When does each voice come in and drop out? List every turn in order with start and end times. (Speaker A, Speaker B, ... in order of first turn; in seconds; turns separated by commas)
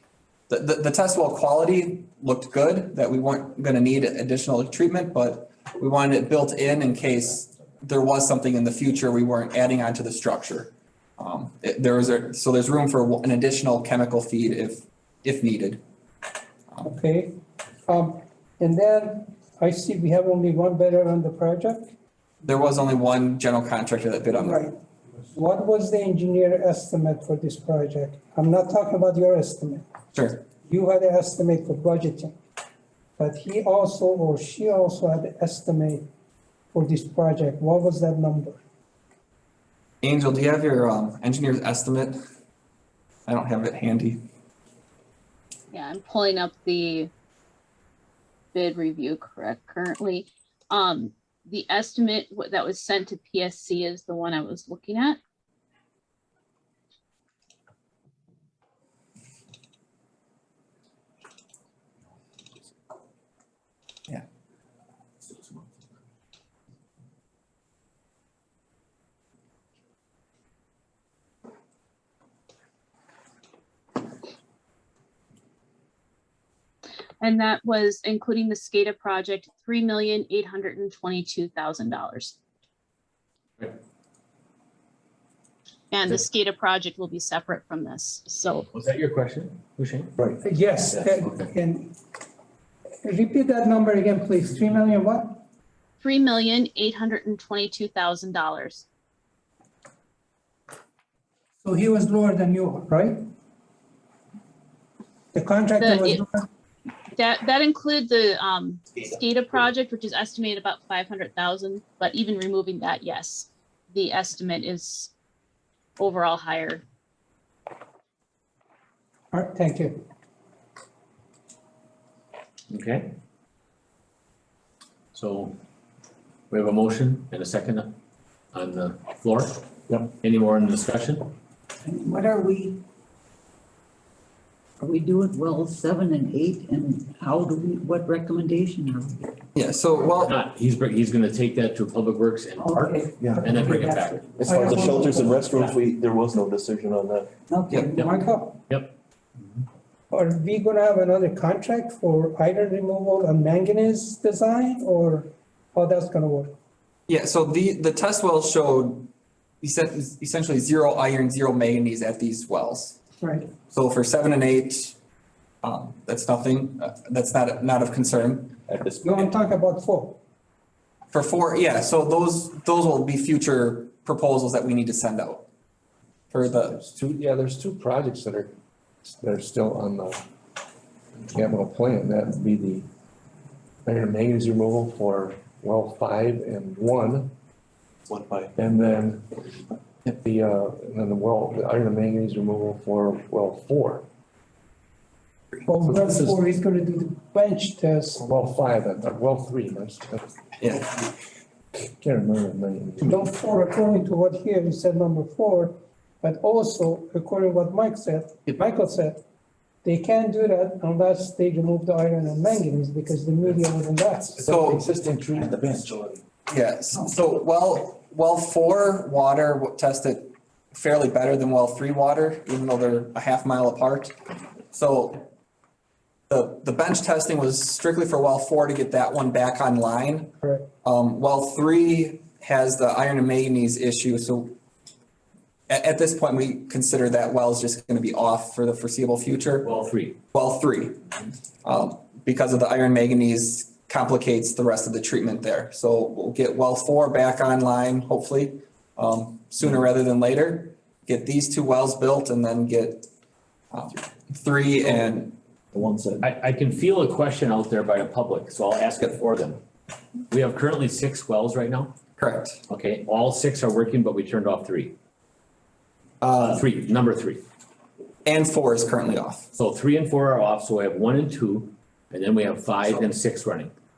Speaker A: 0.5-15.8, Speaker B: 16.8-21.9, Speaker A: 22.4-24.7, Speaker B: 24.4-24.7, Speaker B: 25.3-29.8, Speaker A: 30.1-30.4, Speaker B: 30.6-32.4, Speaker B: 33.2-36.0, Speaker B: 36.7-38.6, Speaker A: 40.0-42.2, Speaker A: 43.3-44.2, Speaker C: 45.7-47.1, Speaker C: 48.5-55.2, Speaker C: 77.2-82.4, Speaker C: 85.9-88.7, Speaker D: 88.7-90.2, Speaker B: 90.4-92.0, Speaker D: 90.9-91.5, Speaker B: 93.0-95.4, Speaker C: 96.0-98.8, Speaker B: 101.6-103.2, Speaker B: 105.3-106.5, Speaker C: 105.8-106.2, Speaker C: 107.1-115.1, Speaker C: 116.0-116.8, Speaker B: 119.3-120.0, Speaker D: 122.7-123.1, Speaker D: 125.1-125.6, Speaker D: 126.5-127.9, Speaker D: 128.5-131.3, Speaker E: 131.8-132.8, Speaker E: 134.8-139.2, Speaker A: 139.5-140.4, Speaker D: 140.2-144.4, Speaker E: 142.6-144.2, Speaker F: 143.2-143.7, Speaker F: 144.3-147.3, Speaker B: 144.4-145.4, Speaker D: 145.5-145.8, Speaker E: 147.5-148.2, Speaker A: 147.7-147.9, Speaker B: 148.0-148.6, Speaker D: 148.7-148.9, Speaker B: 150.1-156.5, Speaker A: 157.1-159.1, Speaker A: 159.6-163.0, Speaker A: 163.6-164.9, Speaker A: 165.6-168.6, Speaker F: 168.7-169.3, Speaker B: 169.0-170.2, Speaker A: 171.1-175.4, Speaker A: 176.3-176.8, Speaker G: 176.6-178.5, Speaker G: 179.1-180.2, Speaker G: 181.2-182.9, Speaker G: 183.8-187.3, Speaker F: 188.1-188.5, Speaker G: 188.6-189.5, Speaker G: 190.1-194.1, Speaker B: 195.7-198.2, Speaker G: 196.0-196.3, Speaker G: 198.2-201.1, Speaker G: 201.7-203.3, Speaker B: 203.0-209.2, Speaker B: 209.8-214.4, Speaker G: 214.3-216.2, Speaker A: 214.4-214.8, Speaker A: 216.5-224.2, Speaker A: 224.7-225.2, Speaker A: 226.3-234.5, Speaker A: 235.7-239.7, Speaker D: 239.6-240.2, Speaker A: 240.3-241.0, Speaker A: 241.6-253.1, Speaker A: 253.7-255.3, Speaker F: 255.7-256.3, Speaker D: 256.2-259.6, Speaker D: 260.3-261.9, Speaker A: 262.2-262.6, Speaker D: 262.7-264.9, Speaker A: 266.2-266.6, Speaker D: 266.4-267.4, Speaker A: 268.2-269.5, Speaker D: 269.5-273.7